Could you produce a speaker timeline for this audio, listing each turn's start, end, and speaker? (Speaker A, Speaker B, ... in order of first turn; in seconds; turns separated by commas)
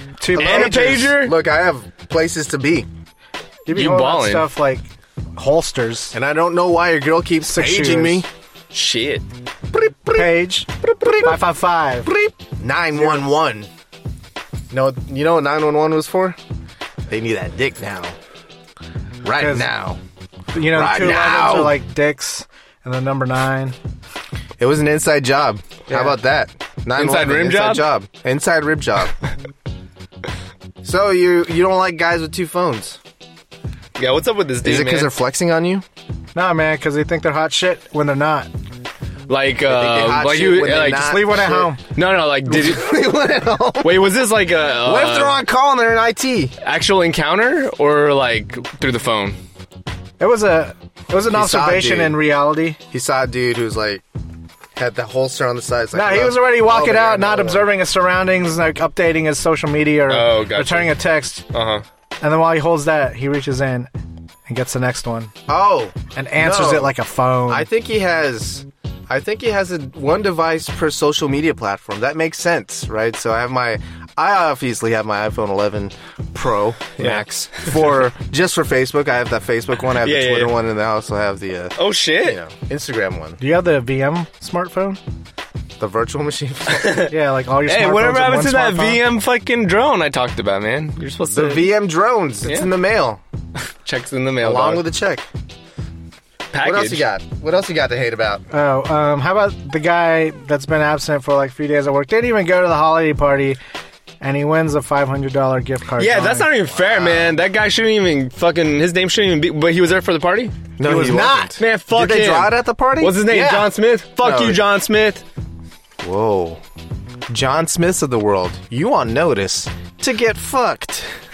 Speaker A: 0.2-1.1, Speaker B: 0.3-1.4, Speaker C: 0.3-2.9, Speaker A: 3.6-6.1, Speaker B: 3.7-4.5, Speaker C: 6.1-8.3, Speaker A: 7.4-8.2, Speaker B: 8.7-9.2, Speaker C: 9.7-11.4, Speaker A: 10.1-10.7, Speaker A: 11.2-12.1, Speaker C: 12.0-13.7, Speaker C: 14.7-16.4, Speaker C: 17.1-18.2, Speaker C: 19.2-20.0, Speaker A: 19.4-19.7, Speaker A: 20.5-23.8, Speaker C: 20.7-21.8, Speaker C: 24.6-29.1, Speaker B: 26.9-27.9, Speaker C: 30.8-33.0, Speaker B: 34.0-35.1, Speaker C: 34.6-35.8, Speaker A: 36.3-38.5, Speaker B: 39.3-41.2, Speaker C: 39.6-41.7, Speaker A: 41.0-41.8, Speaker B: 41.9-43.0, Speaker C: 42.5-44.1, Speaker B: 43.8-45.4, Speaker C: 44.8-46.5, Speaker B: 46.6-49.4, Speaker A: 50.2-52.8, Speaker C: 51.3-52.2, Speaker C: 52.9-54.0, Speaker C: 54.7-57.7, Speaker A: 55.9-61.4, Speaker B: 60.1-61.0, Speaker B: 61.5-61.8, Speaker A: 62.2-63.9, Speaker A: 64.5-65.3, Speaker C: 65.5-66.9, Speaker A: 66.1-67.7, Speaker C: 67.5-83.4, Speaker B: 77.0-77.7, Speaker B: 80.0-80.5, Speaker B: 81.8-82.4, Speaker A: 83.4-85.0, Speaker C: 85.8-87.0, Speaker B: 86.7-87.1, Speaker A: 87.1-89.0, Speaker B: 87.6-91.7, Speaker C: 91.3-93.2, Speaker B: 92.4-92.7, Speaker B: 93.8-94.8, Speaker C: 94.4-95.3, Speaker B: 96.5-97.0, Speaker C: 96.6-98.4, Speaker A: 98.5-103.6, Speaker A: 104.2-106.5, Speaker B: 106.0-110.6, Speaker C: 106.7-107.4, Speaker C: 110.8-113.3, Speaker A: 110.8-111.6, Speaker B: 111.6-115.2, Speaker A: 113.3-113.7, Speaker C: 114.2-114.6, Speaker C: 116.0-116.6, Speaker C: 117.3-121.1